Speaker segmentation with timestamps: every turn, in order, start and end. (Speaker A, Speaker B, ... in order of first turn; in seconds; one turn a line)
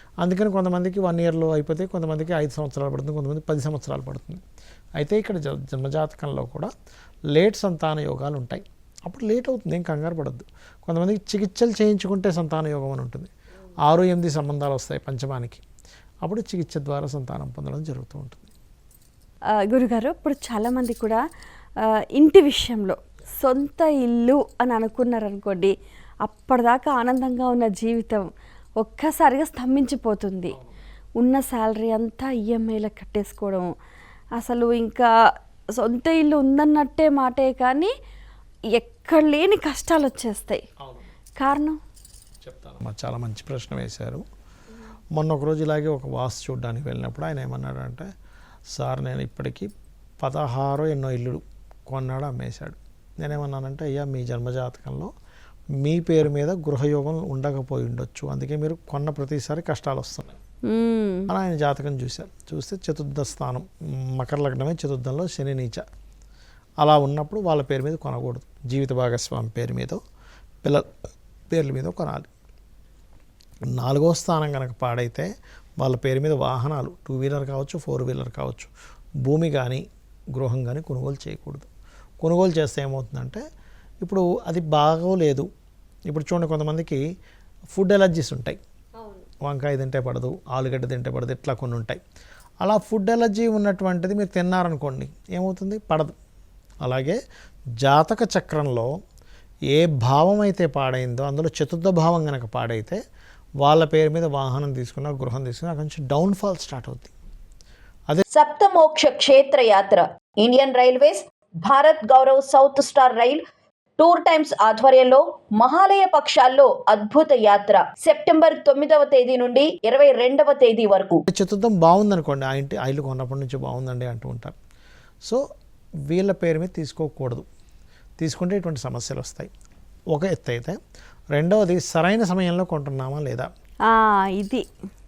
Speaker A: 0.2-4.4
Speaker A: 5.0-6.7
Speaker A: 7.3-13.3
Speaker A: 13.8-15.6
Speaker A: 16.2-18.5
Speaker B: 19.6-21.2
Speaker B: 21.8-28.3
Speaker B: 28.8-30.5
Speaker B: 31.2-33.7
Speaker B: 34.4-35.1
Speaker B: 35.7-37.9
Speaker B: 38.7-40.6
Speaker A: 40.8-41.1
Speaker B: 41.4-41.8
Speaker A: 42.4-44.2
Speaker A: 45.1-48.1
Speaker A: 48.7-49.7
Speaker A: 50.2-55.1
Speaker A: 55.8-60.4
Speaker B: 60.6-61.3
Speaker A: 61.3-65.8
Speaker A: 66.8-70.0
Speaker A: 70.6-70.9
Speaker A: 71.5-72.3
Speaker A: 73.6-78.7
Speaker A: 79.2-81.7
Speaker A: 82.2-83.4
Speaker A: 84.0-85.5
Speaker A: 86.1-87.0
Speaker A: 87.7-88.6
Speaker B: 89.0-89.2
Speaker A: 89.4-92.0
Speaker A: 92.6-96.1
Speaker A: 96.8-97.2
Speaker A: 97.8-98.9
Speaker A: 99.7-103.0
Speaker A: 103.6-107.1
Speaker C: 108.3-113.4
Speaker C: 114.0-121.2
Speaker A: 121.3-124.5
Speaker A: 126.1-127.5
Speaker A: 128.2-129.5
Speaker A: 130.1-130.8
Speaker A: 131.3-133.5
Speaker B: 133.8-134.7